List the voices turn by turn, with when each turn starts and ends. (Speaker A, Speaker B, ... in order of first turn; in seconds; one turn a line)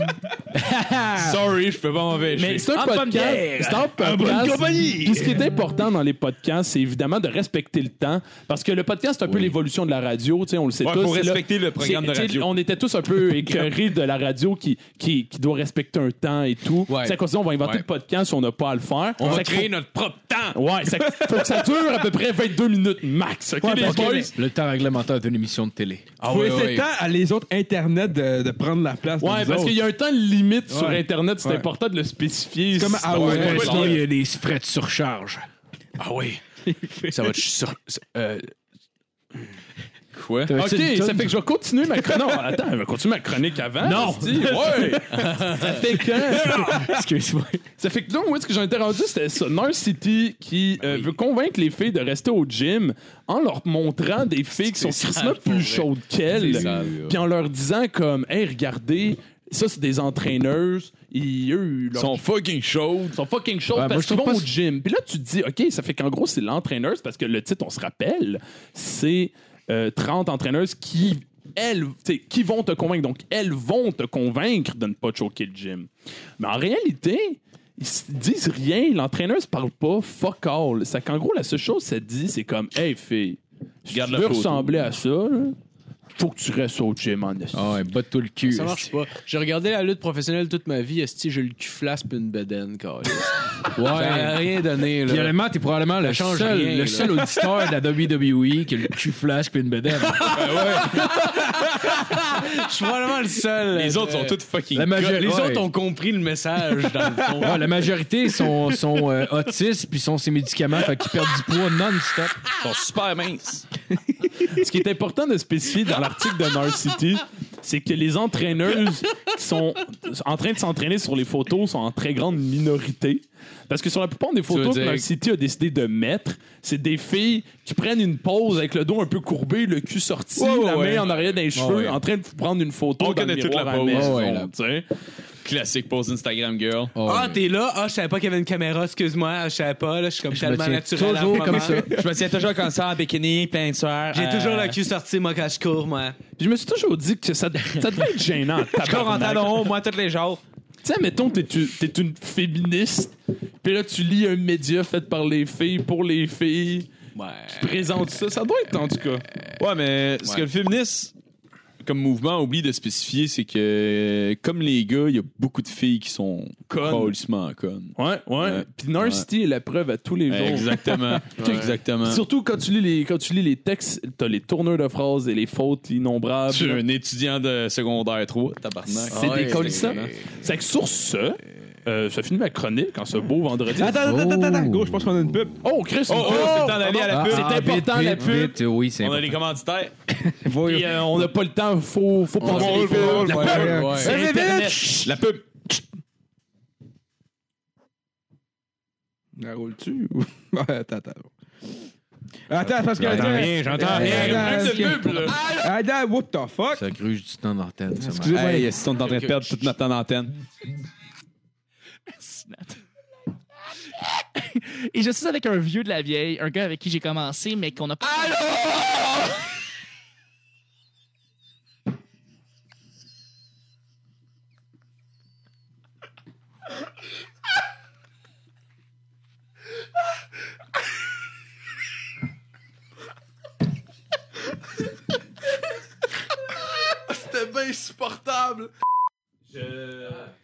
Speaker A: 0.5-1.4
Speaker B: 1.1-2.8
Speaker C: 2.4-19.7
Speaker D: 2.8-5.4
Speaker B: 10.8-12.5
Speaker D: 16.9-17.8
Speaker D: 19.2-20.6
Speaker C: 20.5-24.3
Speaker E: 21.0-21.7
Speaker E: 23.6-24.4
Speaker A: 24.3-26.1
Speaker D: 26.2-26.9
Speaker E: 26.2-29.8
Speaker C: 29.2-34.0
Speaker E: 30.7-31.7
Speaker E: 32.7-34.0
Speaker B: 33.1-34.0
Speaker A: 33.2-35.4
Speaker D: 36.0-36.4
Speaker E: 36.6-37.4
Speaker D: 37.1-38.5
Speaker B: 40.1-40.5
Speaker A: 40.5-41.4
Speaker C: 40.5-46.7
Speaker A: 43.8-47.6
Speaker D: 45.1-46.7
Speaker E: 46.5-46.9
Speaker C: 47.8-62.2
Speaker D: 54.6-57.0
Speaker A: 56.3-57.1
Speaker B: 61.9-63.2
Speaker C: 63.1-85.5
Speaker A: 63.7-64.5
Speaker B: 83.9-84.9
Speaker C: 86.2-87.8
Speaker A: 87.5-88.9
Speaker D: 88.4-95.3
Speaker A: 93.7-94.5
Speaker A: 95.0-100.7
Speaker D: 96.0-97.4
Speaker D: 100.2-104.4
Speaker B: 100.3-101.1
Speaker B: 103.7-105.2
Speaker A: 104.7-105.7
Speaker D: 105.0-107.7
Speaker A: 107.4-112.3
Speaker B: 112.6-113.7
Speaker C: 114.4-134.8
Speaker D: 124.5-125.0
Speaker B: 130.4-131.1
Speaker A: 131.5-132.0
Speaker B: 133.0-134.2
Speaker A: 133.9-134.5
Speaker B: 135.4-136.9
Speaker A: 136.9-137.4
Speaker D: 137.0-141.9
Speaker A: 140.3-142.0
Speaker B: 141.4-144.8
Speaker D: 144.1-146.2
Speaker C: 146.4-149.7
Speaker B: 148.8-150.4
Speaker C: 150.8-156.9
Speaker D: 157.2-157.7
Speaker C: 157.5-159.2
Speaker B: 159.6-161.1
Speaker B: 161.8-169.2
Speaker C: 166.7-167.1
Speaker C: 167.9-176.8
Speaker B: 170.3-172.2
Speaker D: 171.4-171.7
Speaker B: 176.5-180.1
Speaker D: 179.0-180.3
Speaker C: 179.1-184.0
Speaker E: 183.8-185.6
Speaker A: 184.0-185.0
Speaker C: 185.6-188.6
Speaker B: 186.1-187.8
Speaker D: 186.3-186.9
Speaker A: 187.1-189.4
Speaker B: 189.0-189.9
Speaker E: 190.2-191.3
Speaker C: 190.7-195.0
Speaker D: 192.4-194.2
Speaker B: 192.4-195.8
Speaker E: 192.5-195.1
Speaker E: 199.4-201.3
Speaker E: 202.5-206.8
Speaker D: 203.0-205.4
Speaker A: 203.0-204.4
Speaker B: 203.0-204.7
Speaker C: 203.8-205.4
Speaker A: 206.7-208.4
Speaker E: 208.0-208.7
Speaker B: 208.3-210.3
Speaker D: 209.0-209.6
Speaker F: 212.1-212.8
Speaker F: 214.3-219.0
Speaker C: 236.9-238.7
Speaker C: 239.5-240.3